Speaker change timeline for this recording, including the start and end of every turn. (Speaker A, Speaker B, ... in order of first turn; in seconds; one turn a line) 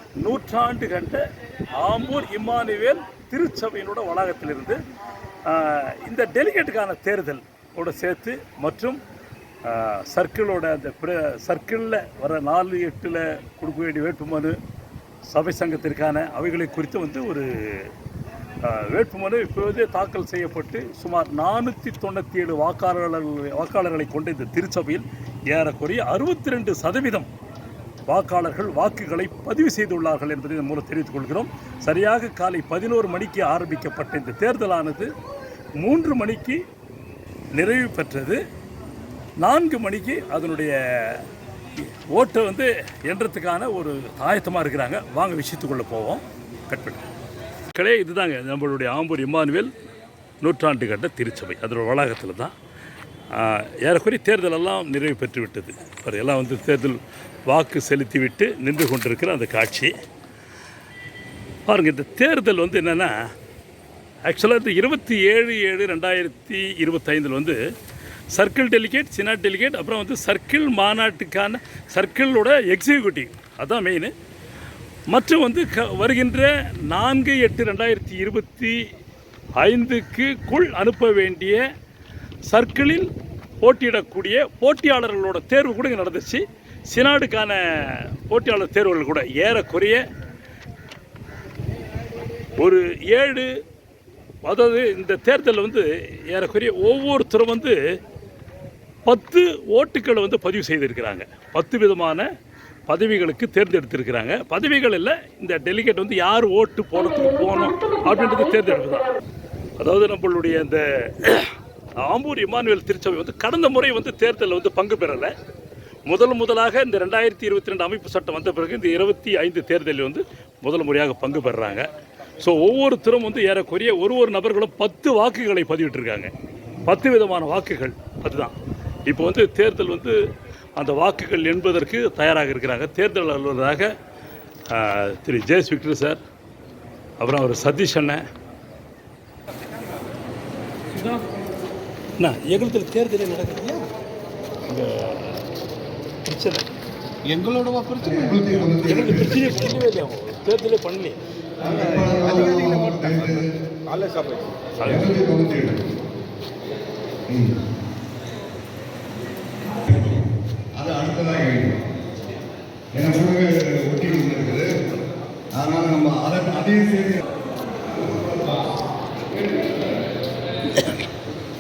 Speaker A: 0.2-1.2
Speaker A: 1.8-4.8
Speaker A: 5.5-9.0
Speaker A: 9.7-14.6
Speaker A: 15.3-17.9
Speaker A: 18.6-27.3
Speaker A: 28.1-35.1
Speaker A: 35.8-36.6
Speaker A: 37.6-38.4
Speaker A: 39.4-41.2
Speaker A: 41.8-47.0
Speaker A: 47.7-49.7
Speaker A: 50.4-52.5
Speaker A: 53.3-59.9
Speaker A: 61.7-63.1
Speaker A: 64.3-67.6
Speaker A: 68.3-74.1
Speaker A: 75.1-78.8
Speaker A: 79.6-81.6
Speaker A: 82.5-83.1
Speaker A: 83.6-90.0
Speaker A: 92.6-93.5
Speaker A: 94.5-97.8
Speaker A: 99.1-102.3
Speaker A: 102.9-109.1
Speaker A: 109.8-115.3
Speaker A: 116.1-121.9
Speaker A: 122.4-126.3
Speaker A: 126.9-128.6
Speaker A: 129.1-130.2
Speaker A: 130.8-133.9
Speaker A: 134.7-136.2
Speaker A: 137.2-138.2
Speaker A: 141.0-141.2
Speaker A: 142.2-143.9
Speaker A: 144.6-145.4
Speaker A: 146.2-146.7
Speaker B: 147.3-148.5
Speaker A: 147.4-147.6
Speaker C: 148.0-149.8
Speaker A: 148.9-151.2
Speaker C: 151.6-153.5
Speaker B: 151.9-153.2
Speaker B: 153.9-154.5
Speaker A: 154.8-155.2
Speaker C: 154.9-155.8
Speaker C: 157.3-157.6
Speaker C: 159.9-160.3
Speaker C: 160.8-161.8
Speaker C: 162.9-164.7
Speaker C: 165.6-167.2